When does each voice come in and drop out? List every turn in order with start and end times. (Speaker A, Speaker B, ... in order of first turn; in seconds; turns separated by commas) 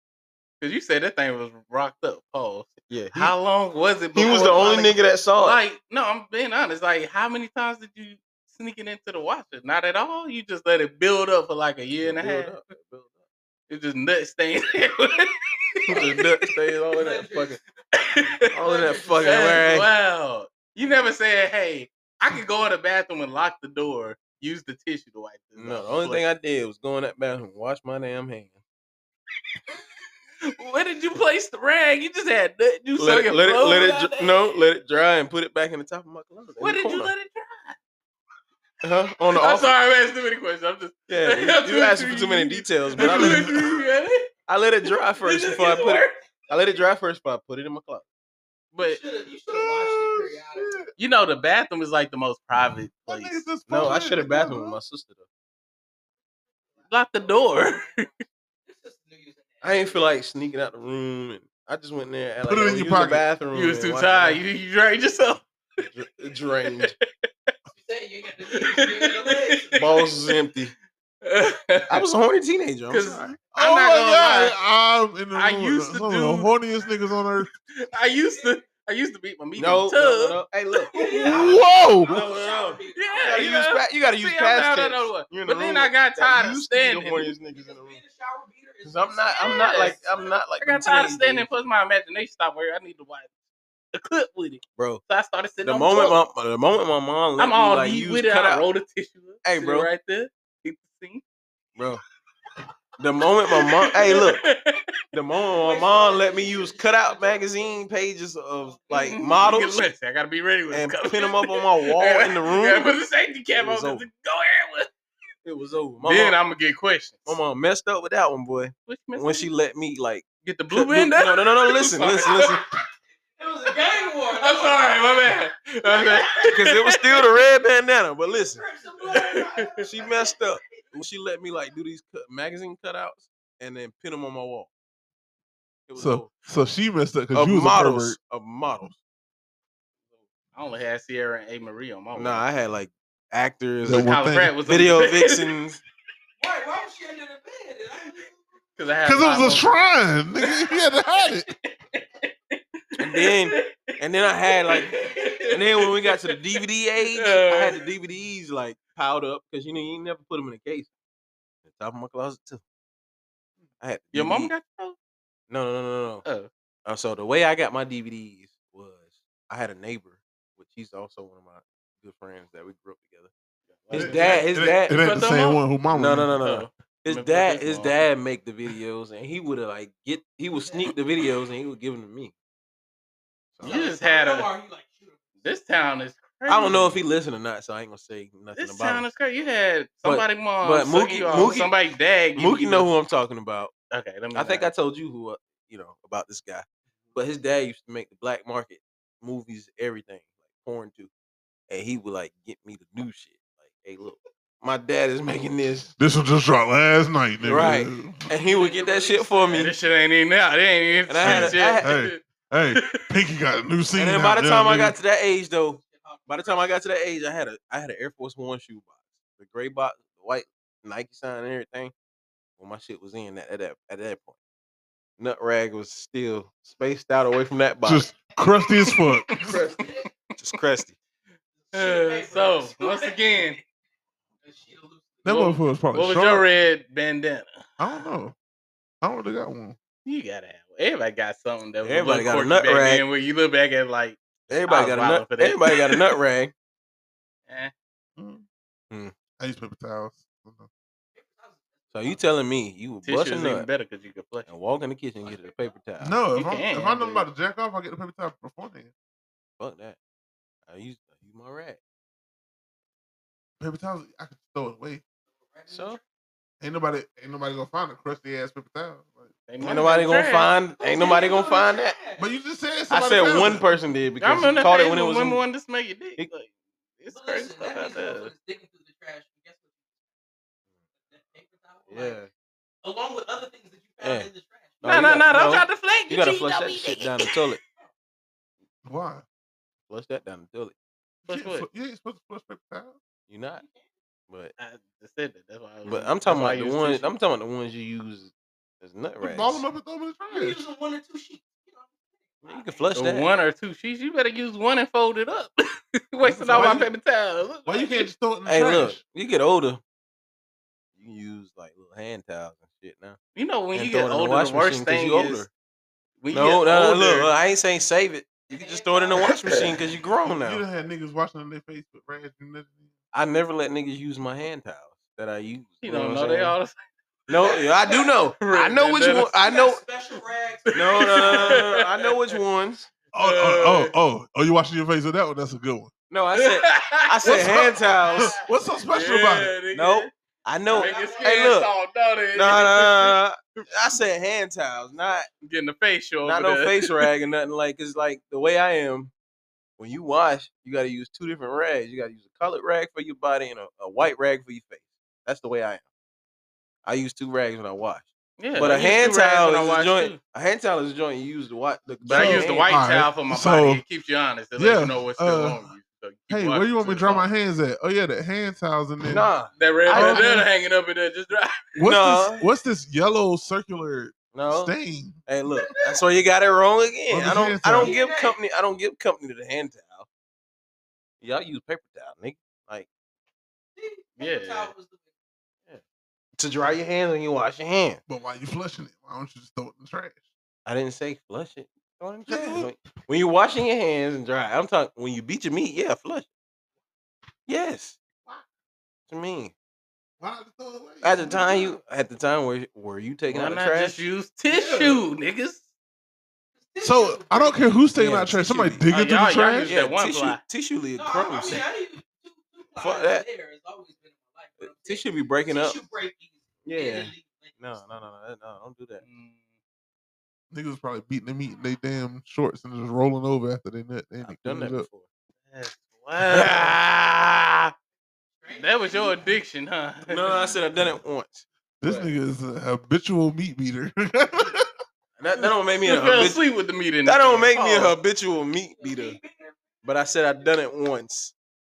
Speaker A: 0.6-12.6, Speaker B: 2.9-3.3, Speaker B: 4.1-5.6, Speaker B: 12.0-13.2, Speaker A: 13.7-16.2, Speaker B: 15.9-17.6, Speaker C: 16.9-17.6, Speaker A: 17.9-18.3, Speaker B: 18.4-19.9, Speaker C: 18.6-19.6, Speaker A: 19.2-26.3, Speaker B: 25.6-28.6, Speaker A: 30.4-34.5, Speaker B: 33.0-37.1, Speaker A: 36.6-37.8, Speaker B: 38.8-39.7, Speaker A: 39.3-44.3, Speaker B: 41.1-43.6, Speaker D: 43.0-43.5, Speaker B: 44.5-48.0, Speaker A: 44.9-46.1, Speaker A: 48.7-49.0, Speaker C: 48.8-50.8, Speaker D: 49.5-50.9, Speaker A: 51.0-53.4, Speaker D: 53.1-54.8, Speaker B: 53.7-55.2, Speaker C: 56.8-58.1, Speaker A: 56.9-58.1, Speaker C: 58.6-60.1, Speaker B: 59.6-64.4, Speaker D: 62.5-63.2, Speaker A: 63.5-65.4, Speaker B: 65.9-66.9, Speaker C: 67.7-69.9, Speaker A: 68.5-70.3, Speaker B: 69.7-70.7, Speaker A: 71.2-72.0, Speaker B: 71.9-73.4, Speaker A: 72.9-74.5, Speaker D: 73.5-77.5, Speaker A: 75.3-76.5, Speaker A: 77.8-80.4, Speaker C: 78.2-78.8, Speaker B: 79.6-88.0, Speaker A: 80.9-81.4, Speaker C: 80.9-83.5, Speaker D: 81.2-82.2, Speaker A: 82.9-87.3, Speaker C: 87.5-90.3, Speaker B: 88.8-91.5, Speaker A: 89.3-90.0, Speaker A: 90.6-93.3, Speaker A: 93.9-96.2, Speaker B: 94.8-95.0, Speaker B: 95.6-98.7, Speaker A: 97.4-101.2, Speaker B: 99.4-99.9, Speaker B: 101.8-102.0, Speaker B: 103.0-104.4, Speaker A: 103.5-104.8, Speaker B: 105.1-109.8, Speaker C: 105.6-107.9, Speaker C: 108.6-109.2, Speaker A: 108.9-114.9, Speaker B: 110.7-112.9, Speaker B: 113.6-114.0, Speaker B: 115.4-116.4, Speaker A: 116.0-117.3, Speaker B: 117.2-122.6, Speaker A: 118.9-119.5, Speaker A: 120.4-122.6, Speaker C: 123.4-125.0, Speaker A: 124.3-127.3, Speaker C: 125.9-126.5, Speaker B: 126.5-128.7, Speaker C: 128.3-130.9, Speaker A: 129.1-129.8, Speaker B: 129.8-134.7, Speaker B: 135.9-136.3, Speaker D: 136.0-138.2, Speaker B: 137.3-138.9, Speaker A: 140.5-142.4, Speaker B: 142.1-144.1, Speaker D: 143.8-144.7, Speaker A: 143.9-145.4, Speaker B: 144.6-145.8, Speaker C: 146.4-148.4, Speaker A: 148.8-149.7, Speaker D: 149.0-151.5, Speaker A: 151.9-153.9, Speaker B: 153.0-155.0, Speaker A: 154.7-156.6, Speaker C: 154.8-155.6, Speaker B: 155.5-160.9, Speaker A: 157.1-157.8, Speaker B: 161.6-162.6, Speaker B: 163.8-164.5, Speaker A: 164.1-164.9, Speaker B: 165.5-166.2, Speaker B: 166.8-173.3, Speaker A: 173.7-175.6, Speaker B: 173.9-175.0, Speaker D: 173.9-176.4, Speaker B: 175.9-182.3, Speaker A: 176.4-178.0, Speaker C: 180.6-180.9, Speaker B: 183.6-183.8, Speaker A: 183.6-184.5, Speaker C: 183.6-185.5, Speaker A: 185.4-187.0, Speaker B: 186.5-189.1, Speaker A: 188.6-192.9, Speaker B: 190.0-191.7, Speaker C: 191.2-191.7, Speaker B: 192.3-193.7, Speaker A: 193.9-194.7, Speaker B: 194.3-201.1, Speaker B: 201.7-205.9, Speaker D: 206.0-208.2, Speaker B: 207.4-209.7, Speaker C: 208.3-209.7, Speaker A: 209.5-212.2, Speaker B: 211.1-211.9, Speaker D: 211.2-215.0, Speaker A: 212.8-213.0, Speaker B: 213.9-221.9, Speaker C: 215.8-216.8, Speaker B: 222.6-224.3, Speaker B: 225.2-228.1, Speaker D: 227.8-229.6, Speaker A: 228.9-229.5, Speaker B: 229.5-231.0, Speaker C: 229.8-230.1, Speaker C: 231.6-233.6, Speaker A: 231.7-233.6, Speaker C: 234.4-235.2, Speaker D: 235.2-236.4, Speaker A: 235.2-237.6, Speaker D: 237.8-238.3, Speaker D: 239.0-239.8, Speaker A: 240.0-246.0, Speaker B: 241.8-243.0, Speaker B: 244.5-246.5, Speaker D: 248.2-248.4, Speaker D: 249.4-250.7, Speaker C: 251.1-252.2, Speaker B: 251.9-253.7, Speaker A: 253.0-254.5, Speaker B: 254.5-256.1, Speaker C: 255.2-255.6, Speaker D: 256.0-258.9, Speaker A: 256.4-257.1, Speaker B: 259.6-260.0, Speaker B: 260.7-261.8, Speaker D: 263.6-265.0, Speaker C: 265.5-266.0, Speaker B: 265.7-266.0, Speaker D: 266.6-269.3, Speaker A: 269.5-270.5, Speaker B: 269.6-272.0, Speaker C: 270.8-272.2, Speaker D: 272.2-273.6, Speaker B: 272.9-275.4, Speaker A: 274.2-278.3, Speaker C: 277.1-279.7, Speaker C: 281.0-282.2, Speaker B: 281.9-282.3, Speaker C: 282.8-285.1, Speaker B: 284.0-284.3, Speaker B: 284.8-287.6, Speaker A: 284.8-287.3, Speaker D: 288.8-289.2, Speaker B: 289.9-290.7, Speaker A: 291.2-291.7, Speaker D: 291.3-293.0, Speaker B: 293.3-293.6, Speaker A: 294.6-297.1, Speaker B: 295.9-299.6, Speaker D: 299.2-300.6, Speaker C: 300.3-302.9, Speaker B: 302.4-303.3, Speaker A: 302.9-308.1, Speaker D: 306.2-306.9, Speaker D: 307.6-309.0, Speaker B: 308.4-309.8, Speaker B: 311.0-313.2, Speaker A: 313.3-315.4, Speaker B: 313.7-315.5, Speaker A: 316.2-317.3, Speaker B: 316.3-320.6, Speaker C: 318.5-320.1, Speaker D: 320.3-322.9, Speaker B: 323.1-326.6, Speaker A: 325.8-326.8, Speaker B: 327.3-329.9, Speaker A: 328.4-329.3, Speaker C: 329.3-331.7, Speaker A: 330.7-332.1, Speaker B: 330.7-332.9, Speaker D: 333.1-335.9, Speaker A: 333.1-333.9, Speaker B: 336.1-338.3, Speaker A: 336.4-338.4, Speaker D: 337.2-339.5, Speaker A: 338.9-340.1, Speaker B: 339.7-341.7, Speaker C: 340.7-341.5, Speaker A: 340.7-343.6, Speaker B: 342.3-345.3, Speaker A: 345.4-347.0, Speaker B: 346.2-349.1, Speaker B: 349.8-355.8, Speaker B: 356.8-362.7, Speaker A: 358.4-360.2, Speaker D: 362.1-363.8, Speaker A: 362.1-367.3, Speaker D: 364.6-365.7, Speaker D: 366.3-369.2, Speaker B: 369.1-370.3, Speaker A: 369.6-371.5, Speaker D: 369.9-370.5, Speaker D: 371.8-375.2, Speaker B: 371.8-372.4, Speaker B: 374.3-374.7, Speaker B: 375.3-380.1, Speaker D: 377.1-377.9, Speaker C: 377.8-378.4, Speaker B: 381.2-382.9, Speaker C: 383.8-385.1, Speaker A: 384.2-384.7, Speaker B: 386.4-388.0, Speaker D: 388.1-390.2, Speaker B: 390.6-396.3, Speaker D: 392.3-392.7, Speaker B: 397.5-398.0, Speaker B: 399.1-399.5, Speaker D: 400.2-401.7, Speaker B: 401.0-404.0, Speaker A: 403.3-405.6, Speaker D: 404.5-405.0, Speaker C: 406.6-407.9, Speaker D: 406.8-409.7, Speaker B: 407.9-408.8, Speaker A: 408.9-410.4, Speaker B: 409.7-411.6, Speaker C: 410.9-417.8, Speaker B: 412.8-413.3, Speaker B: 414.6-415.8, Speaker B: 416.6-419.0, Speaker A: 419.0-419.4, Speaker D: 420.5-424.9, Speaker B: 424.2-425.1, Speaker A: 425.5-427.7, Speaker B: 426.2-426.7, Speaker C: 428.4-429.3, Speaker A: 428.5-430.3, Speaker B: 430.1-432.1, Speaker D: 431.8-434.7, Speaker B: 435.2-436.4, Speaker A: 435.8-437.9, Speaker B: 437.0-439.2, Speaker C: 438.7-440.5, Speaker B: 439.8-441.3